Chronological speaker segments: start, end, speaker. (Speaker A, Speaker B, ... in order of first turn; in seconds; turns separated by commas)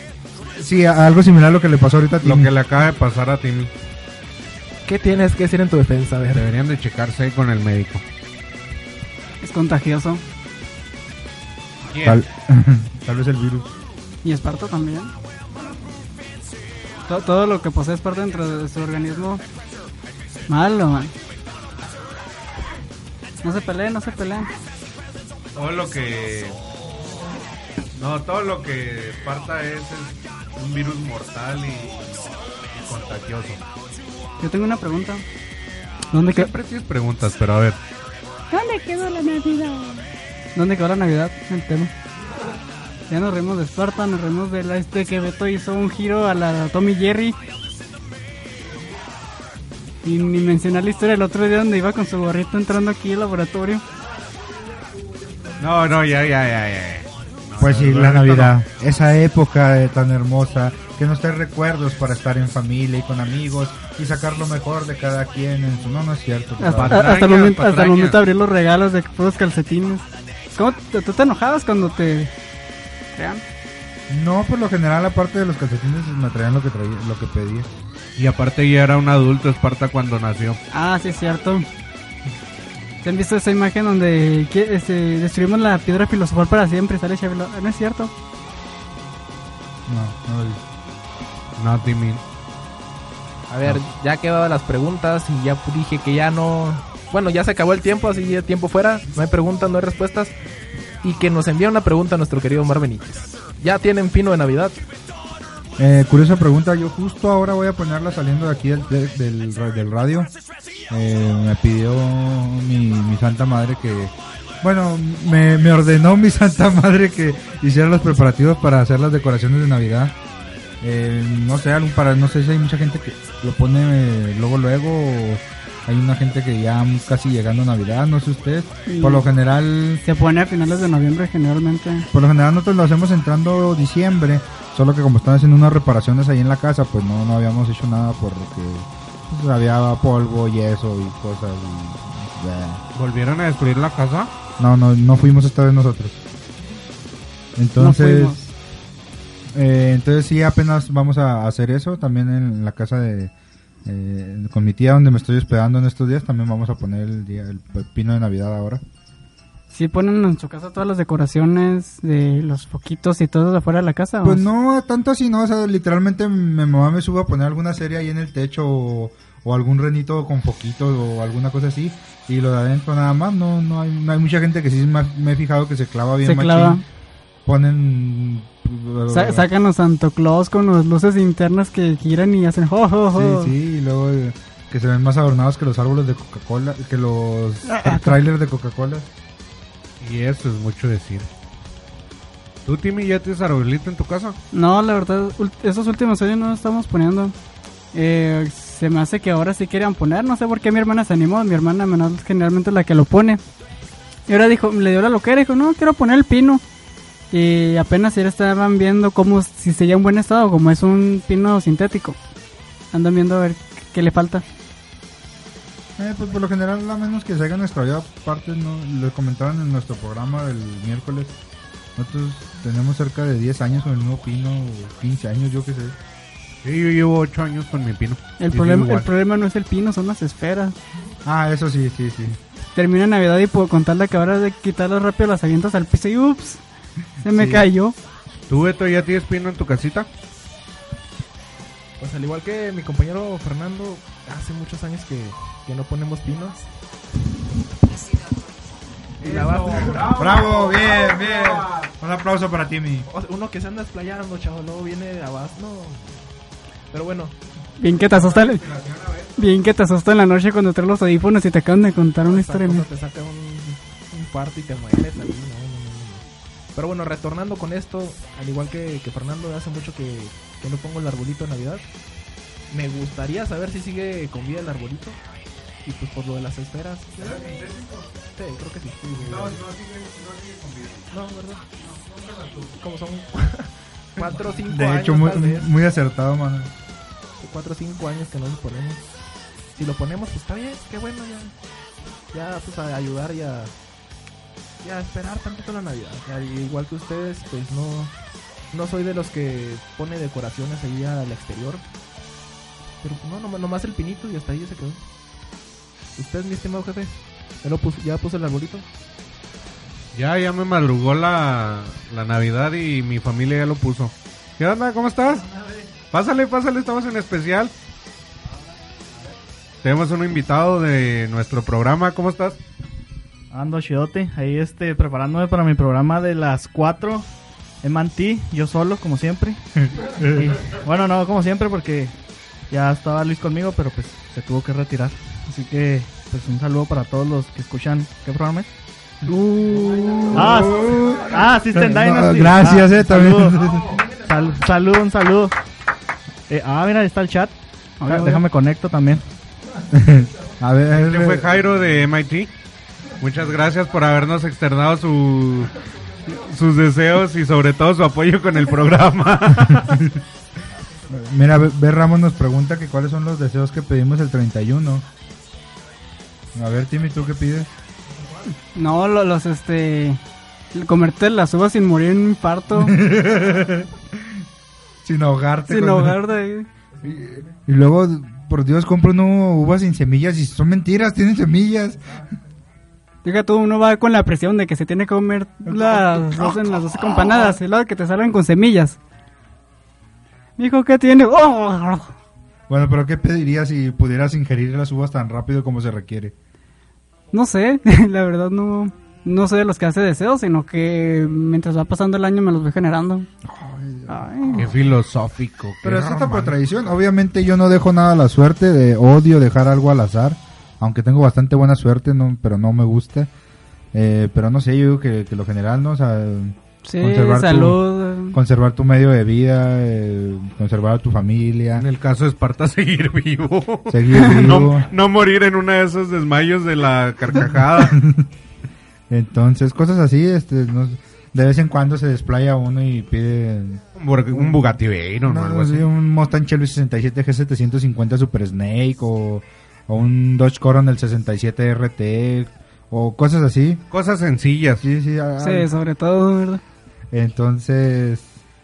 Speaker A: 0.5-2.5, Speaker B: 2.2-3.7, Speaker C: 4.8-6.5, Speaker B: 6.2-8.0, Speaker D: 9.4-10.2, Speaker B: 11.9-12.2, Speaker A: 12.0-13.7, Speaker D: 14.2-15.1, Speaker D: 17.1-19.4, Speaker D: 20.5-21.1, Speaker D: 23.4-24.5, Speaker B: 25.5-26.6, Speaker B: 27.9-33.6, Speaker D: 34.4-35.2, Speaker D: 36.1-36.5, Speaker B: 36.3-37.8, Speaker D: 38.5-41.9, Speaker D: 43.1-47.4, Speaker D: 50.0-53.8, Speaker B: 55.6-58.5, Speaker A: 57.6-67.1, Speaker D: 66.6-72.3, Speaker B: 66.7-68.2, Speaker D: 73.1-73.4, Speaker A: 74.1-77.7, Speaker B: 78.2-80.6, Speaker D: 80.7-81.7, Speaker D: 83.0-88.1, Speaker A: 89.9-90.6, Speaker B: 91.6-92.2, Speaker C: 93.5-100.3, Speaker C: 101.0-104.8, Speaker A: 105.8-110.3, Speaker A: 110.9-120.2, Speaker A: 120.8-130.0, Speaker D: 128.9-129.2, Speaker D: 130.0-132.1, Speaker A: 132.1-142.8, Speaker B: 142.9-144.3, Speaker A: 144.6-146.2, Speaker A: 147.6-148.4, Speaker D: 147.8-148.5, Speaker A: 149.5-153.3, Speaker A: 153.8-158.8, Speaker D: 159.7-164.4, Speaker A: 164.2-176.8, Speaker D: 176.2-176.8, Speaker A: 177.4-179.5, Speaker D: 179.1-183.5, Speaker A: 183.1-189.1, Speaker D: 187.7-188.1, Speaker B: 190.0-191.3, Speaker B: 192.6-194.4, Speaker D: 194.5-197.3, Speaker D: 197.9-203.4, Speaker D: 204.3-206.6, Speaker D: 207.3-212.2, Speaker D: 212.9-214.4, Speaker A: 216.0-221.3, Speaker A: 221.9-226.0, Speaker B: 226.6-229.1, Speaker D: 228.4-230.8, Speaker A: 231.2-232.4, Speaker D: 232.7-236.6, Speaker D: 237.2-237.9, Speaker A: 237.2-237.7, Speaker B: 238.5-240.1, Speaker C: 242.0-246.6, Speaker B: 249.2-251.9, Speaker C: 249.2-250.1, Speaker A: 250.0-253.1, Speaker C: 253.1-256.2, Speaker C: 256.9-257.4, Speaker D: 257.8-258.6, Speaker B: 257.9-259.4, Speaker D: 259.4-262.9, Speaker C: 262.2-266.2, Speaker C: 266.8-271.9, Speaker C: 272.7-275.2, Speaker C: 275.8-277.6, Speaker B: 277.2-278.1, Speaker C: 278.3-279.6, Speaker B: 279.2-281.1, Speaker C: 281.1-281.6, Speaker B: 281.9-282.7, Speaker C: 282.6-285.7, Speaker A: 284.6-286.7, Speaker C: 287.4-289.0, Speaker C: 289.7-291.5, Speaker C: 292.3-293.7, Speaker C: 294.8-298.1, Speaker C: 298.7-301.8, Speaker C: 303.0-305.0, Speaker C: 306.1-308.9, Speaker B: 310.1-315.5, Speaker B: 316.1-317.7, Speaker B: 319.8-322.6, Speaker E: 323.5-332.2, Speaker A: 329.9-330.5, Speaker E: 332.7-338.7, Speaker A: 339.3-343.8, Speaker D: 339.3-340.2, Speaker E: 340.3-345.5, Speaker E: 346.5-349.2, Speaker D: 348.0-348.4, Speaker A: 349.9-351.5, Speaker B: 350.9-352.5, Speaker B: 353.2-360.1, Speaker A: 359.9-360.2, Speaker A: 361.1-365.1, Speaker A: 366.5-367.7, Speaker D: 368.7-370.2, Speaker D: 370.7-372.9, Speaker A: 372.7-374.4, Speaker A: 375.0-376.2, Speaker D: 375.7-376.7, Speaker A: 377.0-382.2, Speaker D: 383.2-389.0, Speaker A: 385.6-387.6, Speaker D: 390.6-392.1, Speaker A: 392.7-396.3, Speaker D: 397.3-403.3, Speaker A: 403.4-404.8, Speaker D: 404.1-404.7, Speaker B: 404.5-406.6, Speaker A: 405.8-413.3, Speaker A: 413.9-421.9, Speaker D: 416.8-418.4, Speaker B: 421.7-428.0, Speaker A: 423.9-424.9, Speaker D: 424.1-424.5, Speaker A: 427.3-428.3, Speaker A: 429.1-434.6, Speaker B: 434.0-435.9, Speaker A: 435.2-443.8, Speaker B: 443.9-444.8, Speaker A: 444.8-445.7, Speaker D: 445.4-446.6, Speaker A: 447.1-448.4